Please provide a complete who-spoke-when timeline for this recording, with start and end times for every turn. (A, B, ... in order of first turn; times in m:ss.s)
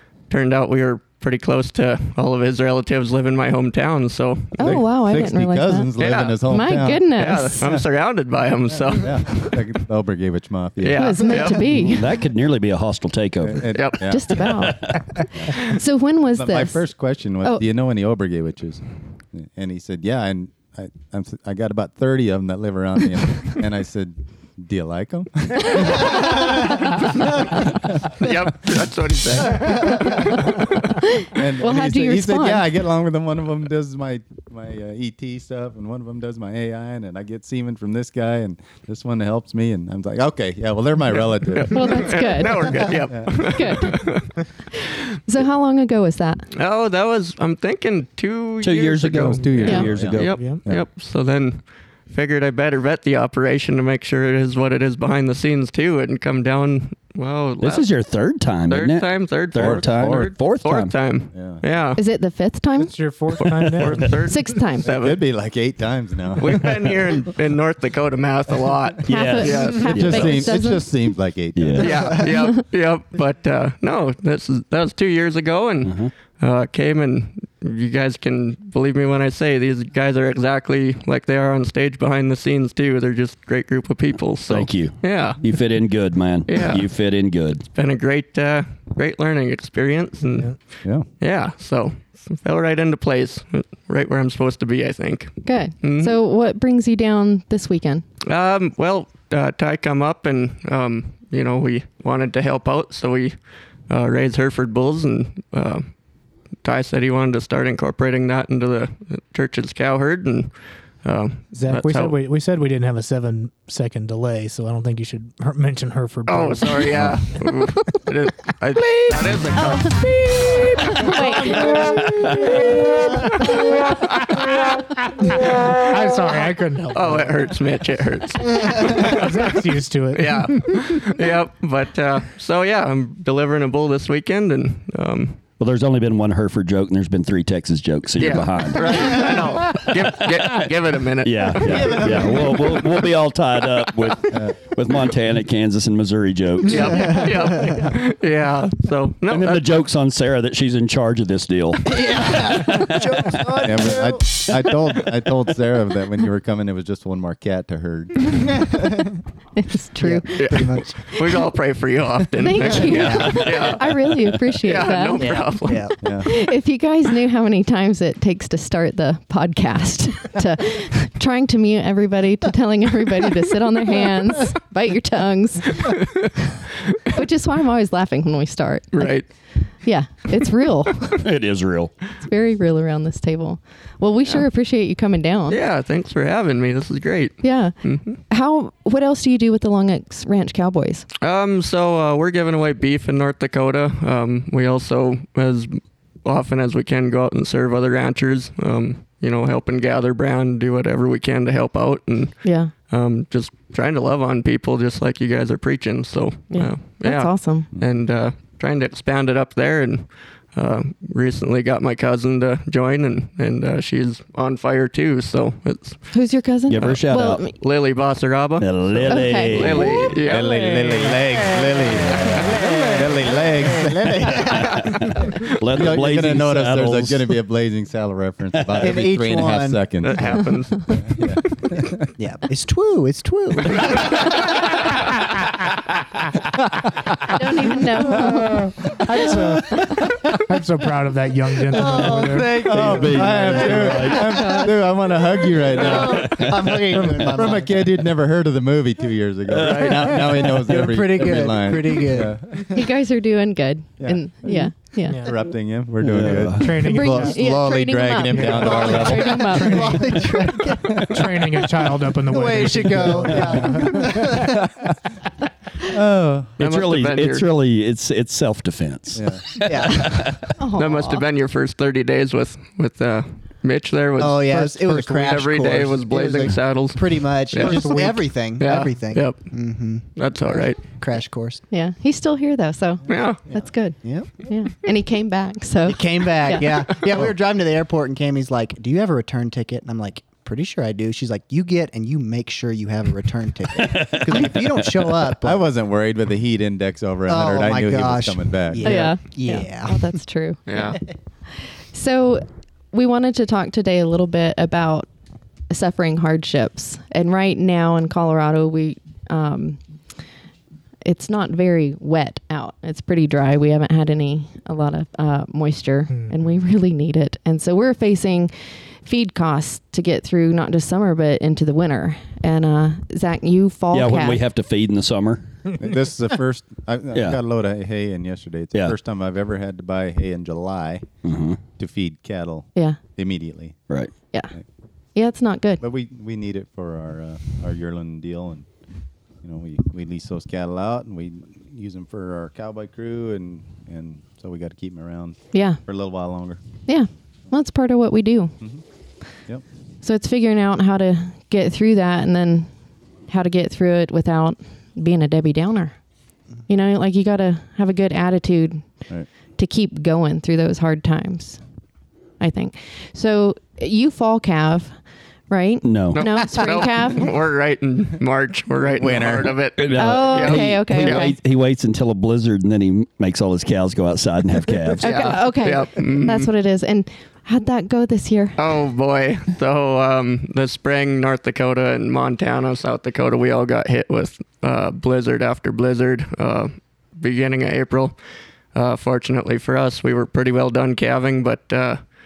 0:00.3-0:04.8 A
0:04.6-0:05.9 B
0:04.6-0:07.1 C
0:06.0-0:06.4 A
0:06.5-0:07.6 B
0:07.2-0:09.7 A
0:08.9-0:11.2 C
0:10.8-0:11.7 A
0:11.0-0:12.1 B
0:11.7-0:13.7 D
0:13.4-0:14.3 C
0:13.7-0:14.0 A
0:14.0-0:15.0 B
0:14.3-0:15.0 D
0:15.3-0:15.8 C
0:15.5-0:16.8 B
0:16.4-0:28.3 C
0:28.2-0:30.9 A
0:31.0-0:32.6 B
0:31.2-0:42.2 C
0:41.2-0:44.3 A
0:41.7-0:44.0 B
0:42.8-0:43.9 C
0:45.2-0:46.4 B
0:46.5-0:57.9 A
0:48.6-0:50.4 D
0:49.4-0:50.8 C
0:50.3-0:50.6 E
0:57.6-1:01.0 D
0:58.7-1:02.0 A
0:59.6-1:00.3 C
1:01.3-1:01.6 C
1:02.0-1:02.9 B
1:02.8-1:04.2 E
1:03.4-1:05.2 A
1:04.2-1:04.8 B
1:04.8-1:06.9 C
1:06.4-1:10.4 A
1:09.0-1:10.4 D
1:09.1-1:10.9 B
1:09.9-1:12.2 C
1:11.6-1:12.1 D
1:11.8-1:25.4 A
1:15.8-1:16.1 D
1:24.5-1:27.6 D
1:26.5-1:26.9 A
1:27.7-1:30.6 A
1:30.3-1:30.6 E
1:31.2-1:36.1 A
1:35.4-1:38.0 B
1:38.2-1:43.4 A
1:43.9-1:45.9 A
1:46.6-1:50.5 A
1:51.0-1:52.2 A
1:51.5-1:57.2 E
1:56.3-2:02.0 A
1:59.6-1:59.9 B
2:00.8-2:01.8 B
2:00.8-2:07.4 E
2:02.2-2:02.7 D
2:03.1-2:04.2 A
2:06.9-2:15.4 A
2:08.8-2:11.1 E
2:15.6-2:20.7 D
2:18.2-2:23.0 A
2:21.2-2:27.2 D
2:21.7-2:22.6 F
2:26.6-2:29.7 A
2:29.3-2:33.9 D
2:31.8-2:34.2 F
2:33.6-2:38.5 C
2:39.6-2:40.6 B
2:40.0-2:41.1 F
2:40.4-2:43.9 A
2:42.4-2:56.6 B
2:42.8-2:43.7 F
2:44.0-2:44.4 D
2:44.6-2:45.8 A
2:45.2-2:46.0 F
2:46.0-2:46.3 C
2:55.9-2:56.3 A
2:57.1-2:59.2 B
2:58.9-2:59.3 A
2:59.8-3:01.2 B
3:01.1-3:01.9 D
3:02.2-3:05.6 B
3:05.5-3:08.2 A
3:07.4-3:11.0 B
3:11.2-3:36.1 A
3:22.4-3:22.7 B
3:26.5-3:27.7 B
3:36.1-3:37.5 B
3:36.7-3:37.4 D
3:36.8-3:40.6 A
3:38.6-3:40.1 D
3:39.1-3:40.1 B
3:40.0-3:44.6 C
3:40.5-3:41.2 E
3:42.4-3:42.8 E
3:42.5-3:45.0 F
3:44.3-3:47.4 D
3:45.2-3:52.1 C
3:48.6-3:48.9 D
3:48.8-3:49.8 F
3:50.0-3:51.1 A
3:52.2-3:54.6 F
3:53.8-3:54.1 A
3:57.3-3:58.6 B
3:58.1-4:03.0 E
4:01.7-4:04.7 F
4:02.1-4:12.7 C
4:02.7-4:04.6 D
4:05.6-4:08.0 F
4:05.8-4:07.4 D
4:09.5-4:10.8 D
4:09.6-4:10.1 A
4:10.6-4:12.7 F
4:12.7-4:15.3 B
4:14.0-4:20.3 C
4:15.1-4:15.4 E
4:16.0-4:16.9 D
4:16.5-4:17.4 E
4:16.8-4:20.3 B
4:18.3-4:19.9 E
4:18.7-4:21.1 F
4:20.8-4:21.3 C
4:21.0-4:24.4 E
4:22.3-4:24.6 F
4:23.2-4:24.0 C
4:24.6-4:24.9 C
4:25.8-4:26.6 C
4:26.6-4:30.4 D
4:26.6-4:27.5 A
4:29.1-4:29.6 C
4:29.6-4:30.3 F
4:30.6-4:31.2 B
4:30.8-4:40.8 A
4:34.2-4:41.6 F
4:37.6-4:38.2 E
4:41.7-4:46.9 B
4:43.1-4:43.4 A
4:43.5-4:44.3 F
4:45.8-4:55.6 F
4:53.7-4:55.2 D
4:55.4-4:59.2 C
4:57.3-5:00.1 F
4:58.8-5:05.1 B
5:00.7-5:01.0 A
5:05.7-5:09.8 B
5:11.0-5:18.5 B
5:19.0-5:24.4 B
5:23.9-5:25.6 D
5:25.8-5:31.1 C
5:27.1-5:27.4 D
5:31.2-5:31.6 D
5:31.8-5:33.8 C
5:35.1-5:35.8 B
5:35.8-5:38.7 C
5:39.4-5:46.6 C
5:45.5-5:45.8 B
5:46.9-5:48.5 B
5:50.0-5:52.7 B
5:53.3-5:56.0 B
5:56.7-5:58.9 B
5:59.6-6:01.6 B
6:02.4-6:07.3 B
6:05.8-6:06.2 D
6:06.1-6:11.3 A
6:09.0-6:09.6 C
6:09.8-6:15.4 D
6:09.9-6:11.3 B
6:15.0-6:18.6 B
6:15.0-6:16.5 A
6:18.6-6:28.1 A
6:28.7-6:32.0 A